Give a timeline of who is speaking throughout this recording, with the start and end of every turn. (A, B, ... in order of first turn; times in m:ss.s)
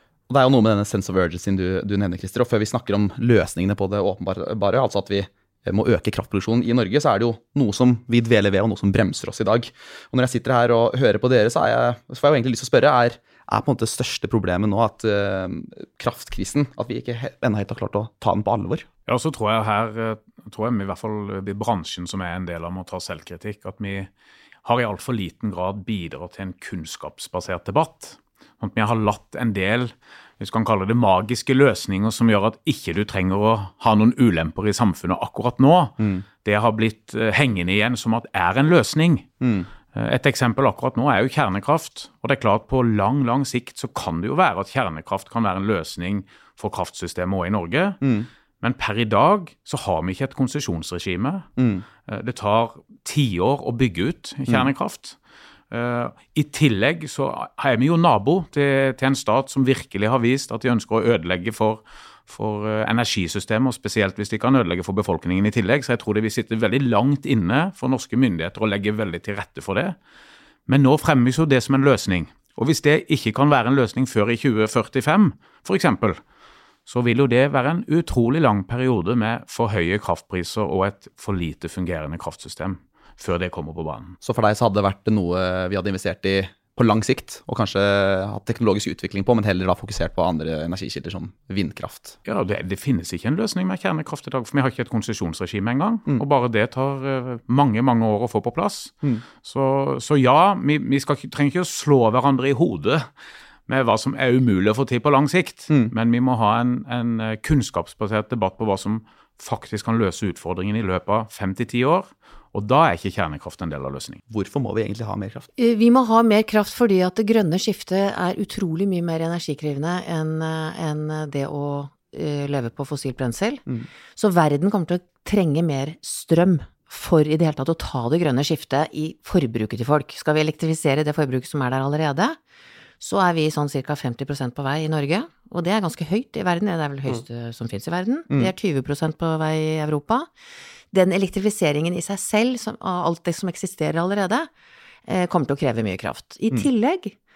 0:00.3-0:18.9 A
0:19.1-0:24.1 B
0:24.6-0:39.3 B
0:36.0-0:36.2 A
0:39.4-0:39.7 A
0:39.9-0:48.0 B
0:48.0-0:48.3 A
0:48.6-0:51.5 B
0:51.6-0:51.9 A
0:52.1-0:55.2 B
0:55.7-1:10.0 B
1:10.7-1:16.2 B
1:16.9-1:24.2 B
1:24.2-1:32.2 A
1:32.3-1:43.1 B
1:43.7-1:54.2 B
1:54.3-1:55.5 A
1:55.6-2:03.6 C
2:04.2-2:12.4 C
2:13.0-2:20.3 C
2:20.9-2:24.5 C
2:25.1-2:27.2 C